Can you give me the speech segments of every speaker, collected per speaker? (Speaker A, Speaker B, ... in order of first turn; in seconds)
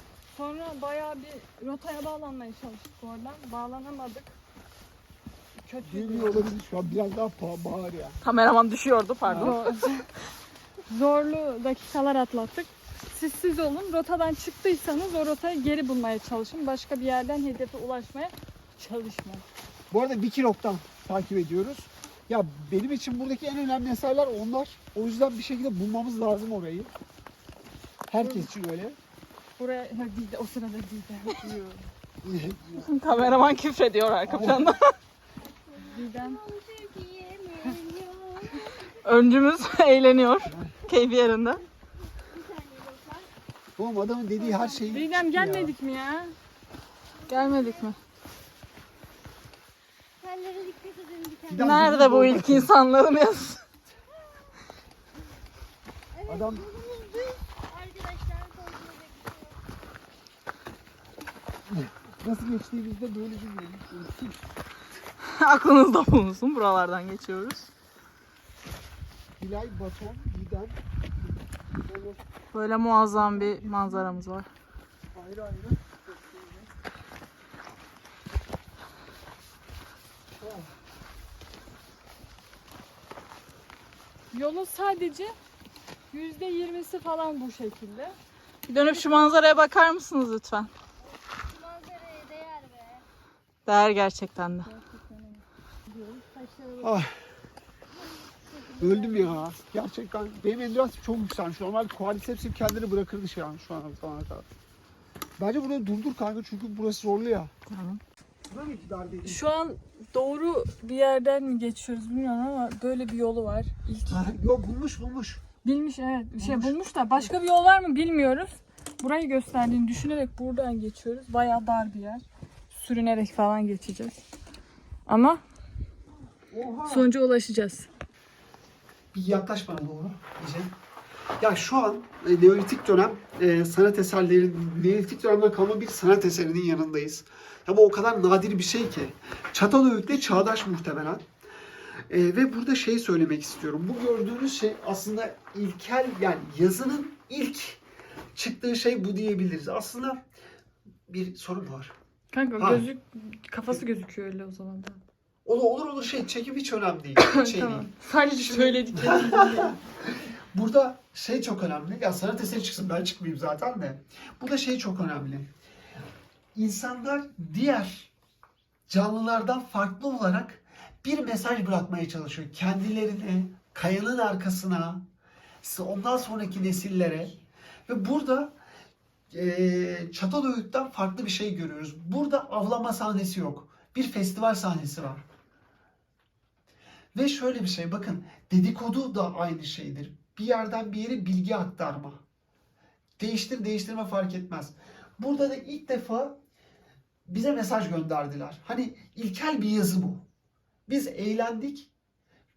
Speaker A: 0.3-4.4, 5.6-6.5, 9.3-10.1, 10.9-19.4, 28.2-28.5, 29.6-31.9, 35.9-36.4, 44.9-46.4, 47.3-48.0, 84.3-85.3, 86.1-88.2, 88.8-89.3, 109.2-114.2, 115.6-124.2, 125.1-125.4, 126.9-127.9, 152.3-155.0, 157.2-159.8
Speaker B: 5.8-8.2, 9.3-9.6, 19.9-26.9, 28.1-29.0, 32.2-32.9, 34.2-34.8, 40.5-40.8, 43.8-45.7, 51.5-52.7, 56.3-56.7, 61.7-64.4, 69.4-72.2, 73.1-73.9, 75.1-76.7, 80.3-80.7, 96.8-97.1, 98.8-104.5, 105.4-107.5, 108.5-109.4, 114.1-115.4, 116.4-117.2, 126.5-127.1, 129.1-130.7, 131.4-141.3, 142.1-147.8, 148.3-150.2, 151.1-151.9, 152.6-152.8, 155.4-159.8, 160.5-165.5, 166.6-168.1, 168.9-175.1, 175.6-178.6, 179.3-185.2, 187.2-192.2, 193.2-196.4, 197.3-200.3, 200.9-201.9
Speaker C: 8.2-9.7, 32.8-34.9, 39.0-41.6, 51.6-53.6, 65.2-67.7, 72.5-74.5, 88.7-90.7, 93.7-94.7, 107.7-108.0
Speaker D: 35.4-38.9, 42.2-43.3, 44.4-45.0, 47.3-47.9, 50.2-51.8, 56.1-59.6, 91.5-93.0, 94.7-96.9, 98.2-99.4